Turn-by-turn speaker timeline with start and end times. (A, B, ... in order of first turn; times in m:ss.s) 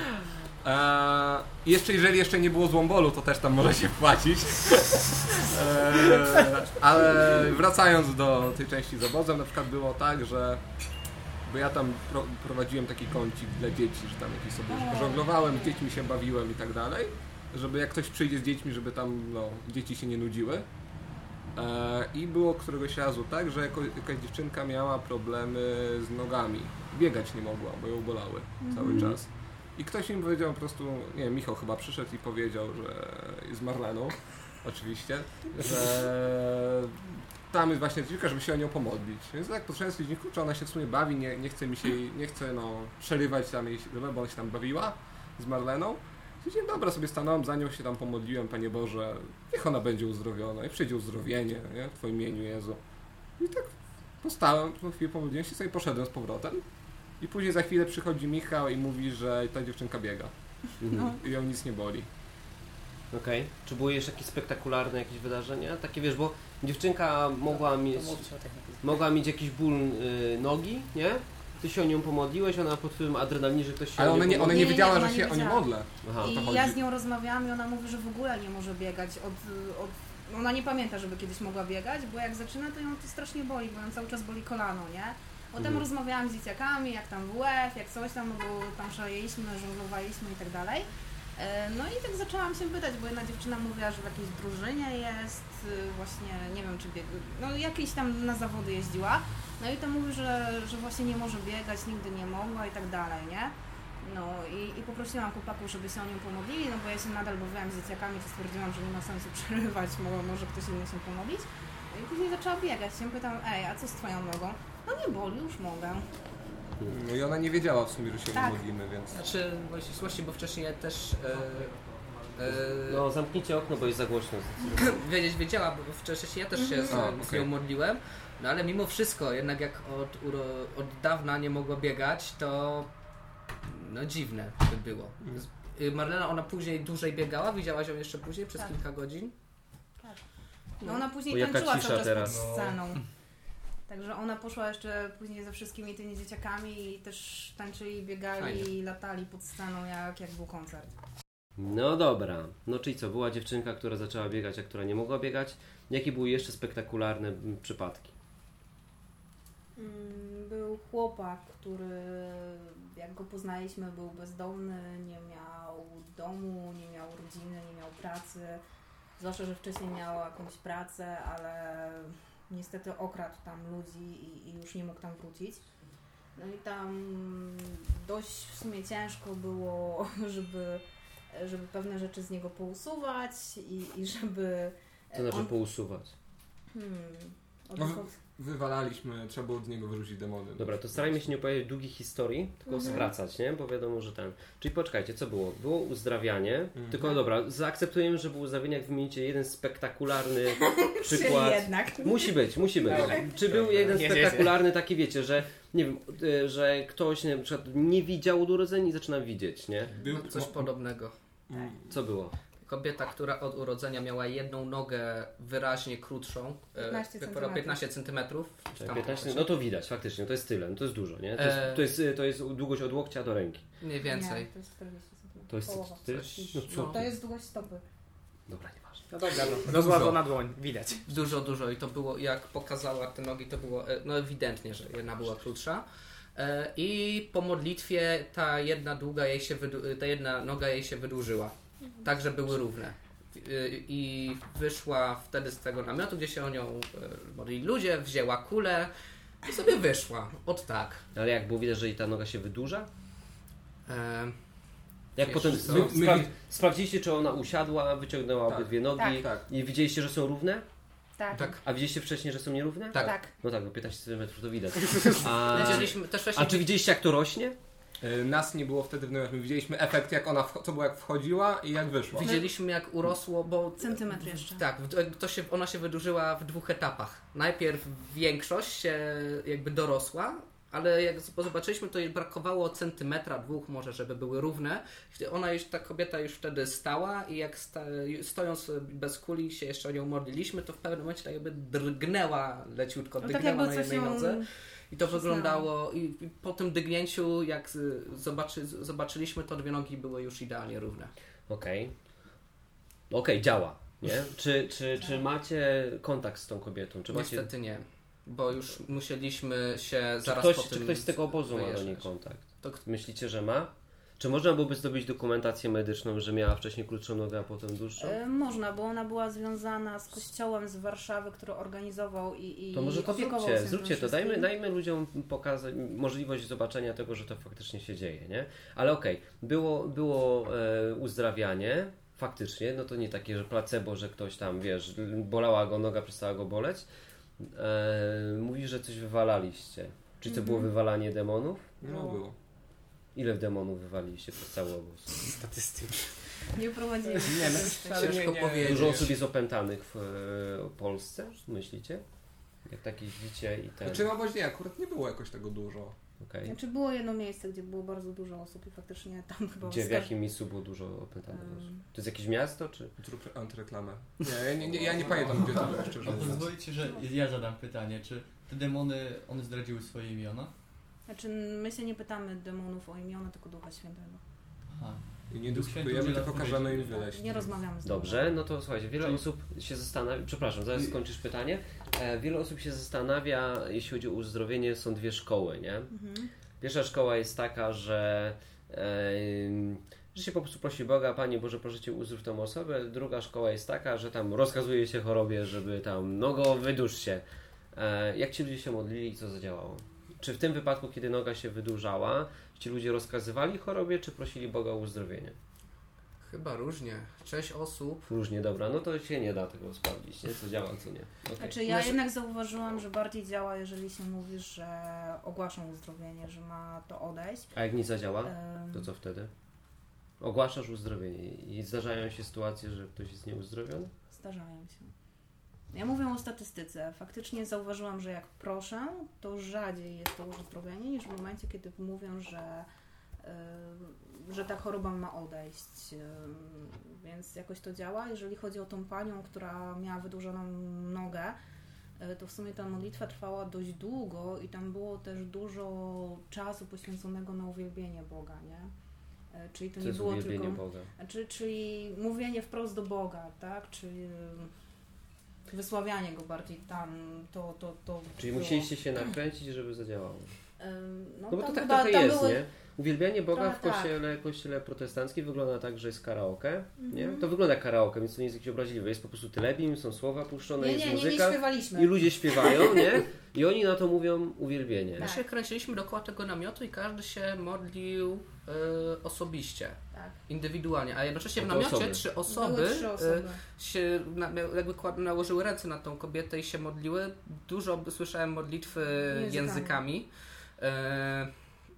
0:00.6-0:10.6 A
0:11.4-0:20.7 A
0:14.7-0:15.8 B
0:21.6-0:52.8 A
0:28.6-0:29.2 B
0:53.4-0:56.6 A
0:57.2-1:00.3 A
1:00.8-1:01.2 C
1:01.0-1:02.1 A
1:03.1-1:08.3 C
1:07.5-1:08.9 D
1:08.8-1:14.8 C
1:14.0-1:16.8 A
1:14.4-1:15.7 B
1:16.0-1:16.4 C
1:16.2-1:56.1 B
1:25.6-1:25.8 C
1:56.9-1:59.2 A
1:58.3-1:58.6 B
1:59.1-2:01.7 E
2:02.3-2:03.0 E
2:02.8-2:05.0 C
2:04.7-2:12.9 E
2:06.6-2:07.1 B
2:06.9-2:07.5 A
2:13.6-2:19.3 E
2:20.8-2:23.1 B
2:21.3-2:22.4 C
2:22.2-2:22.8 F
2:23.9-2:31.0 B
2:28.4-2:28.7 E
2:31.6-2:38.2 C
2:39.8-2:48.6 B
2:49.2-2:55.6 B
2:56.4-3:05.5 B
3:05.1-3:06.1 C
3:06.7-3:08.1 B
3:07.8-3:10.8 A
3:10.6-3:29.9 C
3:12.7-3:13.1 B
3:20.6-3:22.4 B
3:22.9-3:23.9 A
3:23.8-3:24.6 D
3:30.0-3:30.7 A
3:30.1-3:31.1 E
3:31.5-3:31.9 A
3:31.9-3:32.3 C
3:32.6-3:39.5 E
3:36.8-3:37.8 B
3:38.8-3:43.7 C
3:41.4-3:41.9 E
3:43.8-3:44.5 E
3:44.0-3:47.8 B
3:45.5-3:47.2 C
3:46.7-3:47.0 E
3:48.5-3:49.0 C
3:49.1-3:51.0 D
3:49.7-3:50.2 A
3:51.1-3:55.8 E
3:56.4-4:08.9 E
4:09.4-4:11.0 E
4:11.2-4:12.9 C
4:13.9-4:16.1 E
4:15.2-4:20.7 C
4:15.5-4:16.3 A
4:18.5-4:19.4 A
4:19.0-4:19.2 B
4:21.2-4:21.6 B
4:21.3-4:21.6 E
4:21.6-4:27.6 C
4:23.0-4:23.3 B
4:25.4-4:26.7 E
4:28.0-4:32.3 A
4:32.1-5:01.1 E
4:32.2-4:32.5 B
4:33.8-4:34.6 B
4:53.2-4:54.5 B
4:55.1-4:55.7 B
5:01.5-5:02.0 C
5:03.1-5:07.5 C
5:07.1-5:12.8 E
5:10.2-5:18.2 C
5:18.0-5:24.5 B
5:22.7-5:36.9 C
5:37.4-5:41.8 C
5:40.3-5:40.7 B
5:41.8-5:42.4 A
5:41.9-5:42.2 B
5:43.1-5:45.1 C
5:45.2-5:46.4 D
5:46.5-5:48.2 B
5:47.2-5:49.1 A
5:47.8-5:49.1 E
5:48.6-5:52.0 C
5:52.6-5:54.1 C
5:53.8-5:56.0 A
5:56.2-5:56.6 C
5:56.4-6:00.1 B
5:59.6-6:02.9 C
6:01.3-6:01.8 B
6:03.0-6:06.6 A
6:04.6-6:10.5 F
6:11.1-6:14.2 B
6:14.7-6:17.4 F
6:15.3-6:17.5 A
6:17.0-6:18.4 B
6:17.8-6:25.9 C
6:25.9-6:26.3 B
6:26.6-6:45.4 C
6:46.2-6:48.0 E
6:48.0-6:52.0 C
6:51.4-6:57.5 B
6:57.5-6:59.3 C
6:58.2-6:58.9 B
7:00.2-7:03.9 C
7:04.1-7:04.9 B
7:05.7-7:12.7 B
7:13.2-7:21.4 B
7:22.0-7:28.7 B
7:29.3-7:34.5 B
7:29.8-7:30.9 C
7:35.5-7:38.7 B
7:38.2-7:40.4 C
7:40.6-7:42.4 B
7:41.3-7:55.1 C
7:43.3-7:43.9 B
7:46.8-7:47.3 B
7:50.6-7:52.8 B
7:55.0-7:55.2 B
7:55.0-8:11.3 E
8:01.4-8:02.0 C
8:02.3-8:03.4 B
8:09.1-8:09.8 B